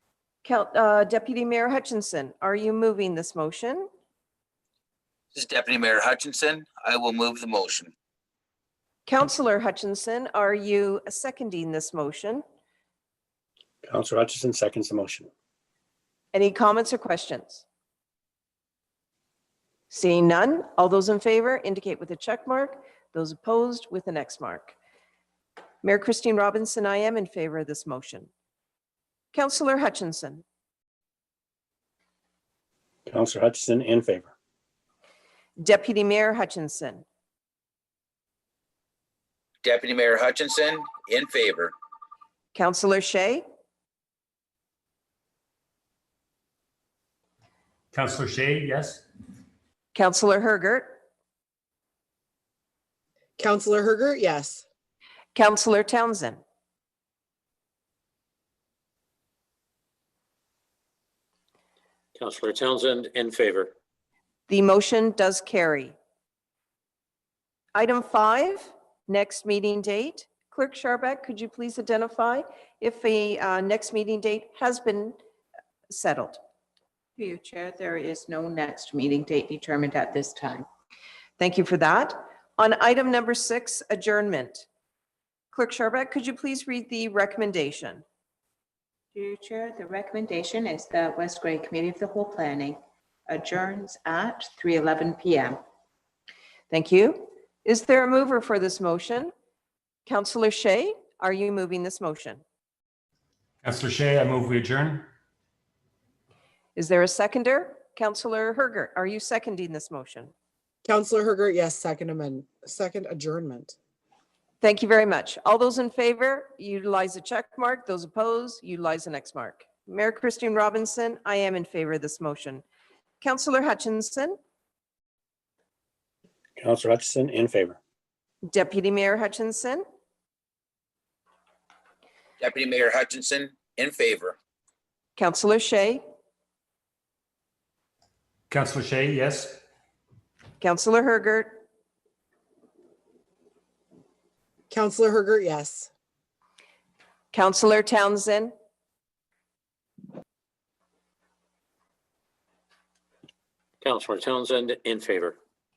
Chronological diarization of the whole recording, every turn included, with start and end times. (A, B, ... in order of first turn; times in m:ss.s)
0:00.4-0:03.9 A
0:05.3-0:07.9 B
0:09.0-0:12.4 A
0:13.8-0:15.3 C
0:16.3-0:17.6 A
0:19.9-0:24.7 A
0:25.8-0:28.3 A
0:29.3-0:30.4 A
0:33.1-0:34.3 C
0:35.6-0:37.0 A
0:39.6-0:41.7 B
0:42.5-0:43.4 A
0:47.9-0:49.0 D
0:49.9-0:51.0 A
0:53.4-0:54.6 E
0:55.3-0:56.4 A
1:02.1-1:03.7 F
1:04.5-1:05.9 A
1:07.7-1:15.2 A
1:15.9-1:16.4 A
1:17.2-1:20.6 G
1:21.4-1:24.6 A
1:25.5-1:28.0 A
1:29.2-1:32.8 G
1:33.3-1:35.6 G
1:36.7-1:39.3 A
1:40.0-1:42.4 A
1:43.6-1:45.1 D
1:46.8-1:50.3 A
1:50.8-1:53.8 E
1:54.6-2:02.6 A
2:03.2-2:04.4 A
2:06.6-2:07.8 C
2:08.4-2:09.8 A
2:12.4-2:14.3 B
2:15.2-2:16.0 A
2:18.5-2:19.6 D
2:20.6-2:21.6 A
2:24.7-2:25.9 E
2:27.3-2:28.5 A
2:33.8-2:35.4 F